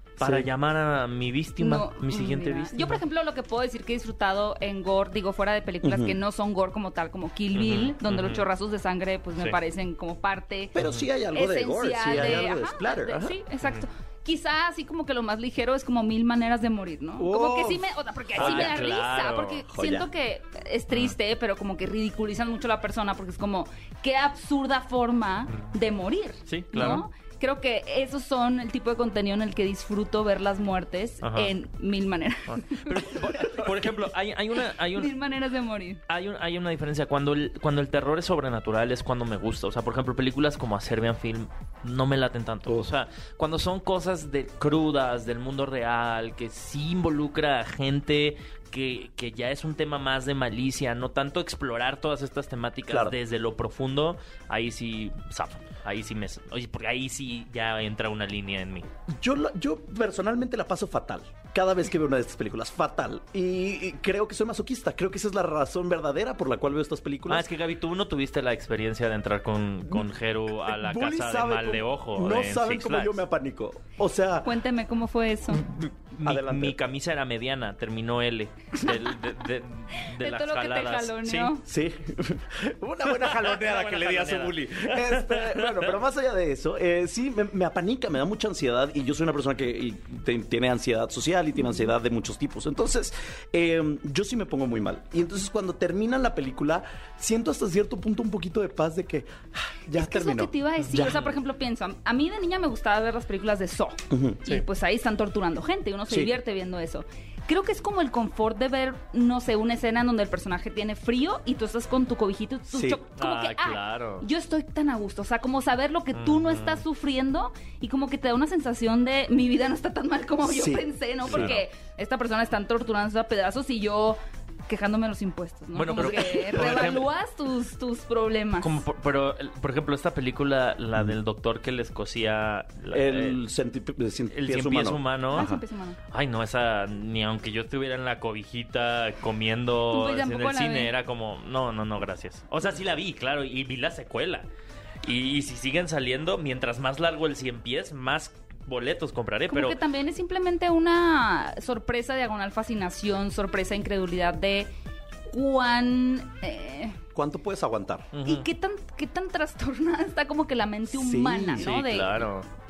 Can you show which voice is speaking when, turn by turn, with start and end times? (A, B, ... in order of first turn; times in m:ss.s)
0:00.2-0:03.0 A
0:00.2-0:00.5 B
0:01.6-0:10.7 C
0:05.8-0:06.2 B
0:07.5-0:08.4 A
0:10.7-0:13.4 B
0:10.8-0:11.1 A
0:11.3-0:33.6 C
0:17.2-0:18.8 B
0:18.3-0:19.6 A
0:19.7-0:20.1 B
0:26.5-0:27.0 A
0:31.2-0:31.5 A
0:32.5-0:35.1 A
0:34.9-0:36.0 C
0:36.1-0:58.9 A
0:52.9-0:53.2 B
0:59.1-1:07.5 B
1:07.3-1:13.2 A
1:10.6-1:14.5 B
1:14.4-1:15.6 C
1:15.6-1:21.5 A
1:16.2-1:16.8 B
1:20.0-1:21.6 C
1:21.6-1:41.2 B
1:23.1-1:25.9 A
1:39.9-2:08.8 C
1:40.8-1:41.3 A
1:44.1-1:44.6 B
1:46.1-1:46.3 B
1:52.7-1:53.0 B
1:53.2-1:54.2 A
1:56.1-1:56.8 A
2:00.4-2:01.5 B
2:01.3-2:01.6 A
2:05.7-2:07.1 A
2:08.6-2:13.4 A
2:12.9-2:15.6 B
2:14.3-2:15.5 A
2:15.3-2:16.0 C
2:16.1-2:24.4 A
2:19.9-2:20.9 C
2:25.0-2:29.8 A
2:29.5-2:34.7 C
2:35.3-2:37.0 C
2:37.1-2:38.1 B
2:38.1-2:38.5 A
2:38.2-2:42.3 C
2:40.9-2:41.7 B
2:41.6-2:42.4 A